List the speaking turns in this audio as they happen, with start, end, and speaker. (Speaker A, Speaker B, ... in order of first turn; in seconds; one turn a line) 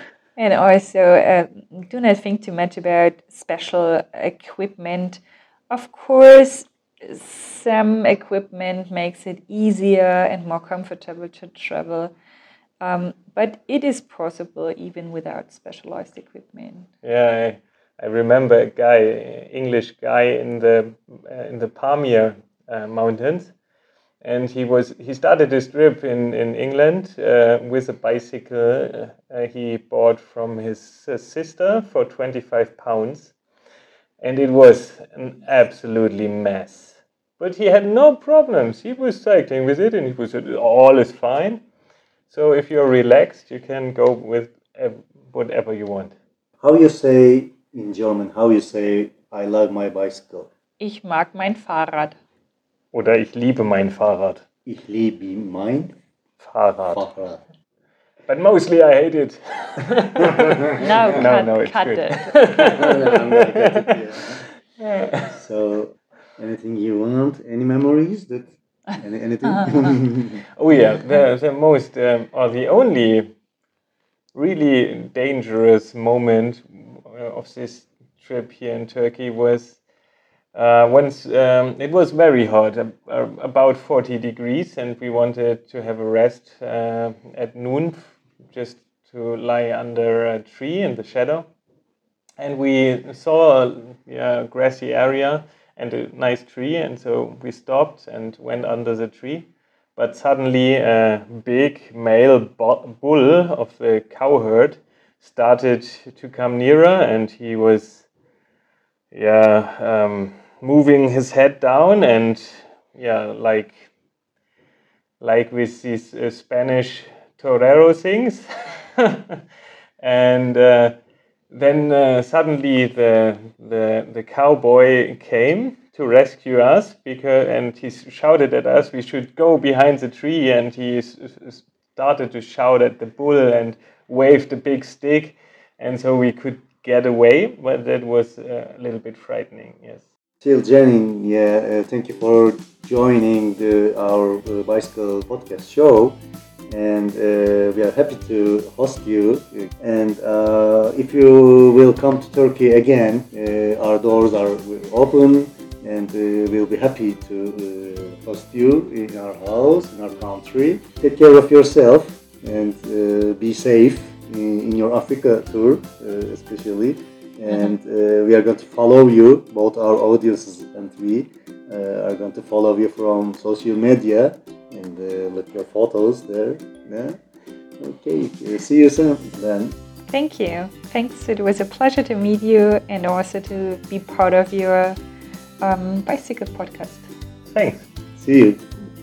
Speaker A: 0.4-12.1
Speaker A: 12.8-16.9
Speaker B: 17.0-23.5
Speaker B: 24.2-33.3
Speaker B: 34.2-41.6
Speaker B: 42.3-46.1
Speaker C: 46.6-50.5
Speaker A: 50.8-52.1
Speaker B: 52.9-54.4
Speaker C: 54.6-55.9
Speaker B: 56.4-57.0
Speaker C: 56.9-57.4
Speaker B: 58.3-65.4
Speaker C: 60.3-60.8
Speaker A: 60.7-62.3
Speaker C: 62.7-64.4
Speaker C: 65.3-70.4
Speaker B: 70.6-73.3
Speaker B: 74.3-79.8
Speaker B: 80.5-91.5
Speaker B: 92.4-108.1
Speaker B: 109.1-113.9
Speaker B: 115.2-118.5
Speaker B: 119.0-119.4
Speaker B: 120.0-121.0
Speaker B: 121.5-140.0
Speaker C: 140.4-146.2
Speaker C: 146.7-177.2
Speaker C: 177.8-179.7
Speaker A: 180.1-185.0
Speaker A: 185.6-187.1
Speaker B: 187.4-187.9
Speaker C: 188.2-188.7